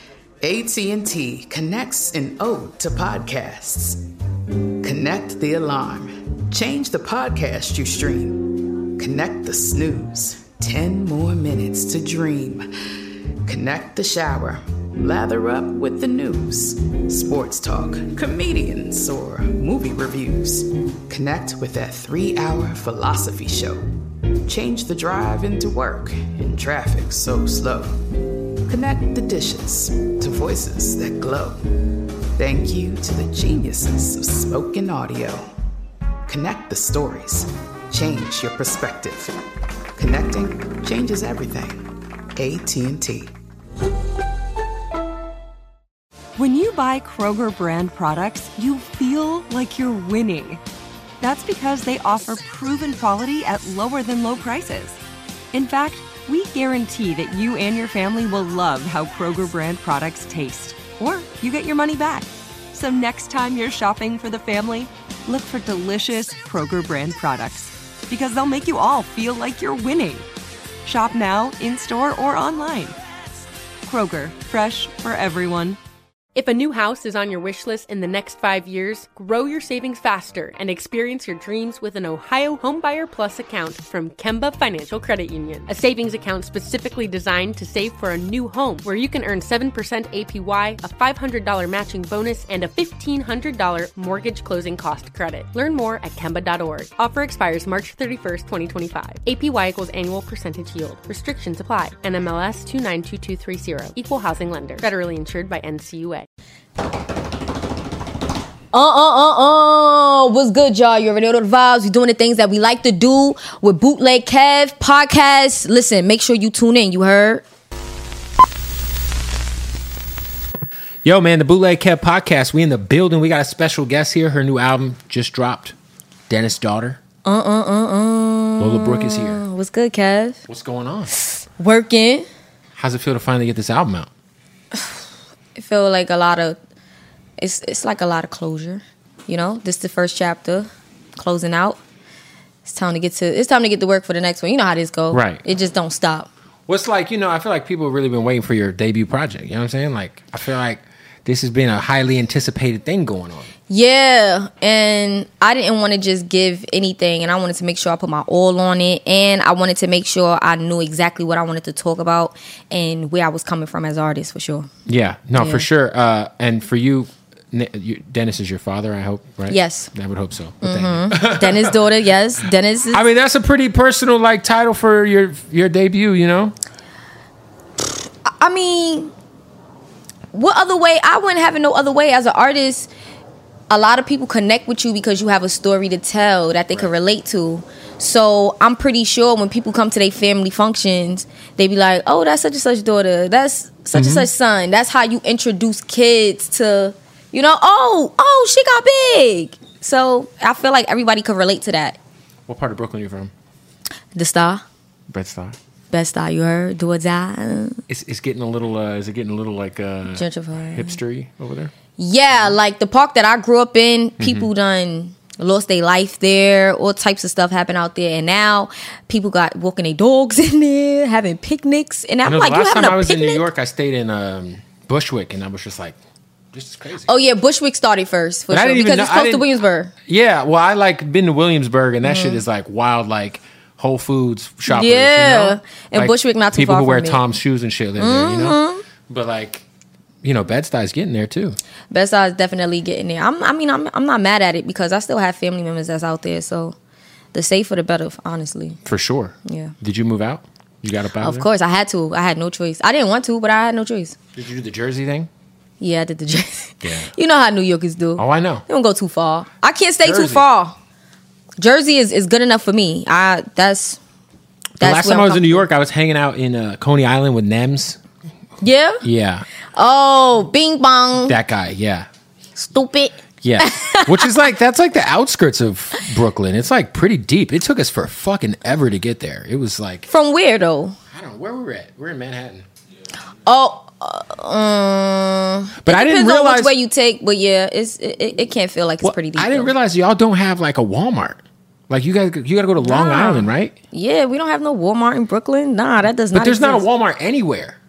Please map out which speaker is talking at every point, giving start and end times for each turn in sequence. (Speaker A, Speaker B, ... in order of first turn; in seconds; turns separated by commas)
Speaker A: 0.4-4.0, Speaker A: 4.8-12.7, Speaker A: 13.4-23.9, Speaker A: 24.5-28.0, Speaker A: 28.7-31.6, Speaker A: 32.4-35.5, Speaker A: 36.3-39.3, Speaker A: 40.0-43.4, Speaker B: 46.4-50.6, Speaker B: 51.2-55.0, Speaker B: 55.5-70.3, Speaker B: 70.8-73.0, Speaker B: 73.8-75.8, Speaker C: 76.3-106.3, Speaker D: 108.7-117.5, Speaker E: 121.0-125.8, Speaker E: 126.3-127.0, Speaker D: 127.2-130.4, Speaker E: 128.6-129.4, Speaker E: 130.5-131.1, Speaker D: 131.6-132.3, Speaker E: 132.8-134.1, Speaker D: 134.7-135.0, Speaker D: 135.6-136.6, Speaker D: 137.4-141.8, Speaker D: 142.7-146.3, Speaker E: 145.1-145.4, Speaker E: 146.7-153.5, Speaker D: 153.7-164.7, Speaker E: 164.9-171.8, Speaker D: 165.3-165.7, Speaker D: 169.5-169.9, Speaker D: 170.6-173.0, Speaker E: 172.9-176.6, Speaker D: 178.2-179.1, Speaker D: 180.3-182.9, Speaker D: 183.7-202.0, Speaker E: 193.9-194.3, Speaker E: 202.5-203.3, Speaker D: 204.2-204.6, Speaker E: 205.1-205.6, Speaker D: 205.9-207.8, Speaker E: 207.9-211.7, Speaker D: 210.1-211.0, Speaker D: 212.0-223.4, Speaker E: 214.2-214.5, Speaker E: 222.2-226.0, Speaker E: 226.5-227.1, Speaker D: 227.1-229.9, Speaker E: 228.5-229.5, Speaker E: 230.1-239.7, Speaker D: 232.0-232.4, Speaker D: 234.7-237.2, Speaker D: 238.0-238.8, Speaker E: 240.2-241.6, Speaker D: 241.9-246.8, Speaker D: 247.3-248.8, Speaker E: 248.8-251.5, Speaker D: 249.5-249.7, Speaker D: 251.2-254.2, Speaker E: 254.3-255.3, Speaker D: 255.8-260.8, Speaker E: 256.8-257.1, Speaker E: 258.2-258.6, Speaker E: 260.0-260.4, Speaker D: 261.6-264.0, Speaker E: 264.8-268.0, Speaker D: 264.8-265.7, Speaker D: 268.6-269.0, Speaker E: 269.0-269.5, Speaker D: 269.7-271.4, Speaker E: 271.2-272.1, Speaker D: 272.6-274.4, Speaker E: 273.4-280.1, Speaker D: 280.1-281.0, Speaker E: 281.1-282.7, Speaker D: 283.5-289.7, Speaker E: 285.8-286.7, Speaker E: 289.0-293.8, Speaker D: 292.8-296.9, Speaker E: 296.3-297.8